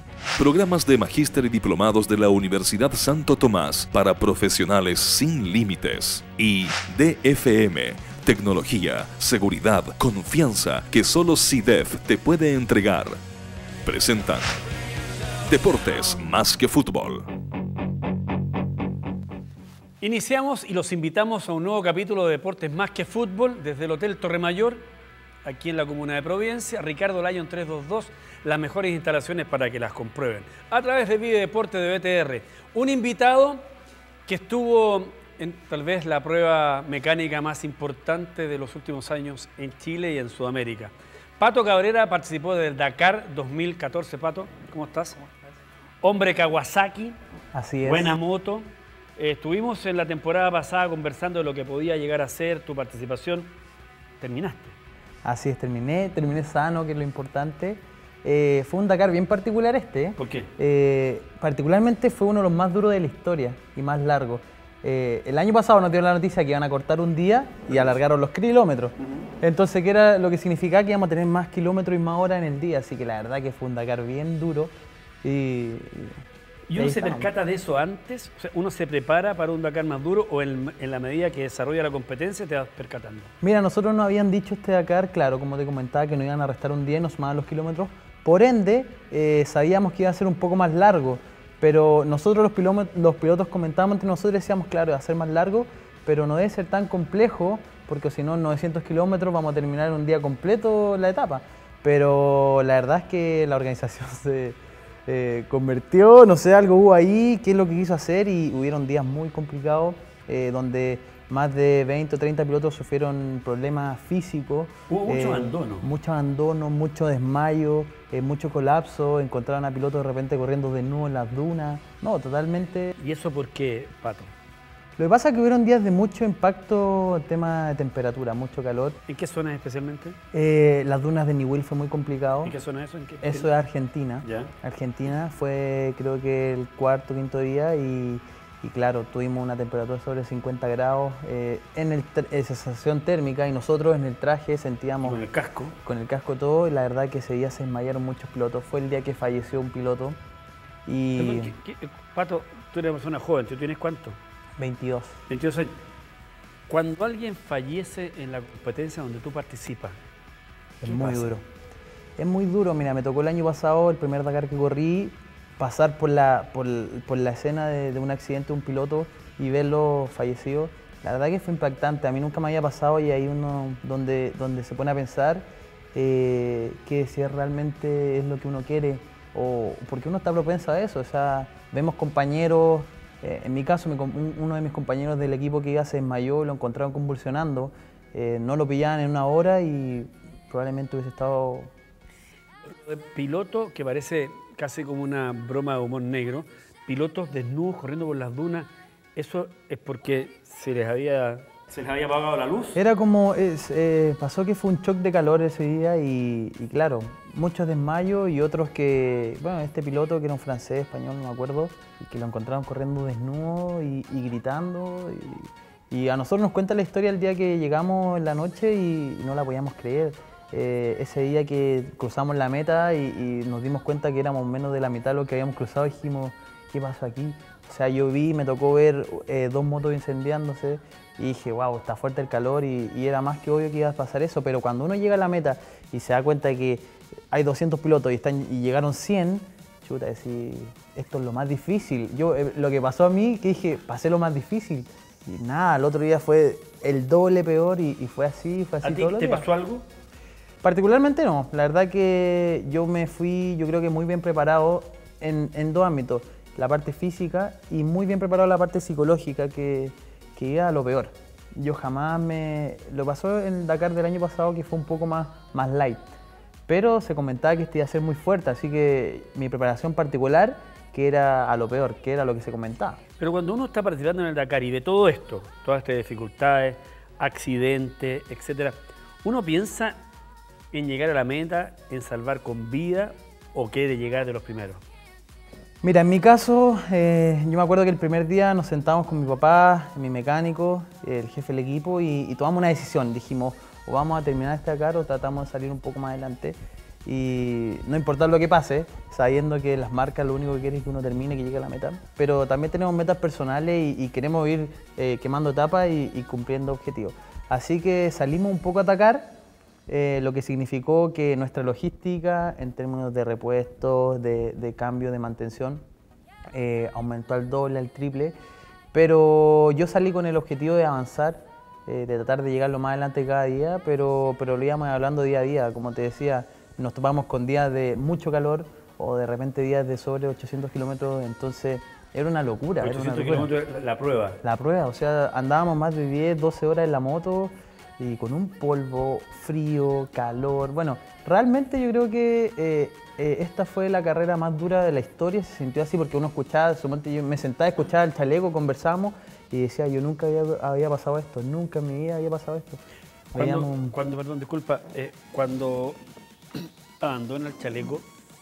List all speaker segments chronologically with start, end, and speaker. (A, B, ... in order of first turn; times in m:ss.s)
0:00.4-0:13.2 A
0:13.8-0:14.6 A
0:15.5-0:17.3 A
0:20.0-0:24.9 B
0:25.4-0:33.7 B
0:34.3-0:45.2 B
0:46.0-0:47.2 B
0:47.5-0:48.2 C
0:47.8-0:53.5 B
0:54.2-0:54.8 B
0:55.2-1:16.2 C
1:00.2-1:00.5 B
1:07.7-1:07.9 B
1:09.0-1:09.3 B
1:16.7-1:23.3 B
1:16.8-1:17.3 C
1:23.4-2:03.0 C
1:54.9-1:55.9 B
2:03.0-2:04.3 B
2:05.0-2:09.0 C
2:09.1-2:10.2 B
2:10.3-2:12.6 C
2:12.4-2:13.5 B
2:13.2-2:25.2 C
2:14.2-2:14.5 B
2:25.0-2:25.8 B
2:25.8-2:30.2 C
2:30.9-2:31.5 C
2:31.2-2:34.2 B
2:34.6-2:35.2 C
2:35.3-2:35.7 B
2:36.7-2:40.0 B
2:40.8-2:41.4 C
2:40.8-2:41.3 B
2:42.2-3:11.7 C
3:12.7-3:22.8 B
3:22.8-4:09.5 C
4:08.8-4:09.8 B
4:10.6-4:26.1 C
4:26.7-4:33.0 C
4:33.2-4:40.0 B
4:40.7-4:44.8 B
4:45.8-5:09.4 C
5:09.9-5:15.8 C
5:16.5-5:18.4 C
5:18.9-5:33.5 C
5:32.8-5:34.4 B
5:34.4-5:52.8 C
5:53.3-5:54.0 C
5:53.4-5:56.0 B
5:56.6-5:58.0 B